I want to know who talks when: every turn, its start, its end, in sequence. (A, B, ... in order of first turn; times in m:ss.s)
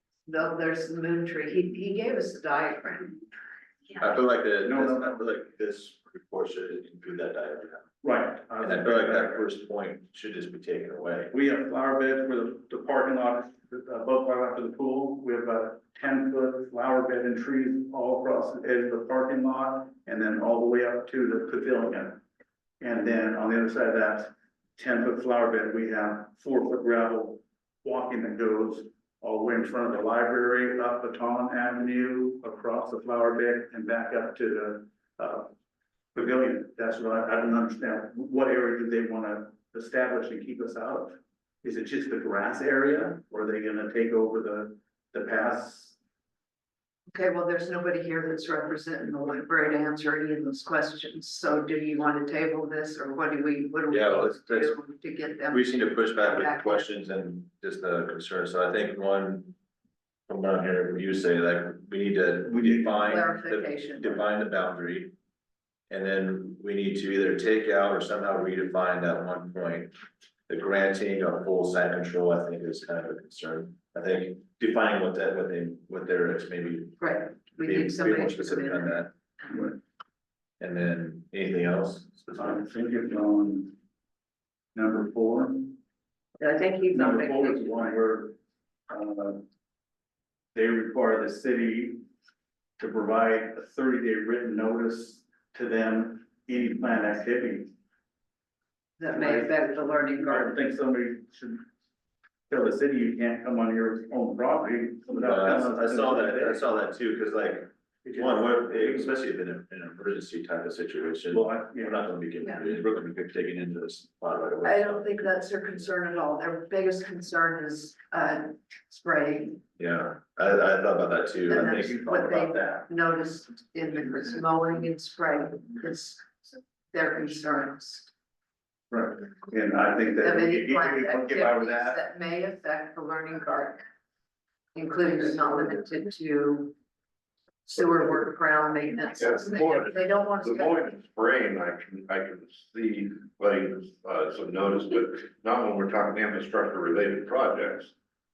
0:00.2-0:03.1 A
0:04.0-0:07.8 B
0:04.6-0:05.2 C
0:08.0-0:09.5 C
0:08.6-0:11.3 B
0:11.3-0:22.2 C
0:22.8-0:35.5 C
0:36.1-0:46.0 C
0:47.1-0:56.9 A
0:53.9-0:54.8 B
0:55.5-0:59.5 B
1:00.3-1:05.1 B
1:02.4-1:03.0 C
1:02.8-1:04.2 A
1:05.9-1:09.9 B
1:10.5-1:19.1 B
1:17.0-1:19.0 A
1:19.5-1:19.8 C
1:20.6-1:22.6 B
1:22.4-1:23.8 C
1:24.7-1:25.8 C
1:26.4-1:27.8 A
1:26.9-1:28.4 C
1:28.9-1:29.4 C
1:30.5-1:32.0 C
1:32.8-1:37.7 C
1:39.0-1:40.6 A
1:39.1-1:41.6 C
1:42.5-1:46.6 C
1:45.1-1:55.1 B
1:48.0-1:49.1 C
1:51.3-1:52.0 C
1:54.6-1:59.6 A
1:59.8-2:02.8 B
2:01.5-2:08.1 A
2:08.9-2:12.0 C
2:10.2-2:13.8 A
2:14.7-2:16.7 A
2:17.6-2:21.0 A
2:19.2-2:27.9 D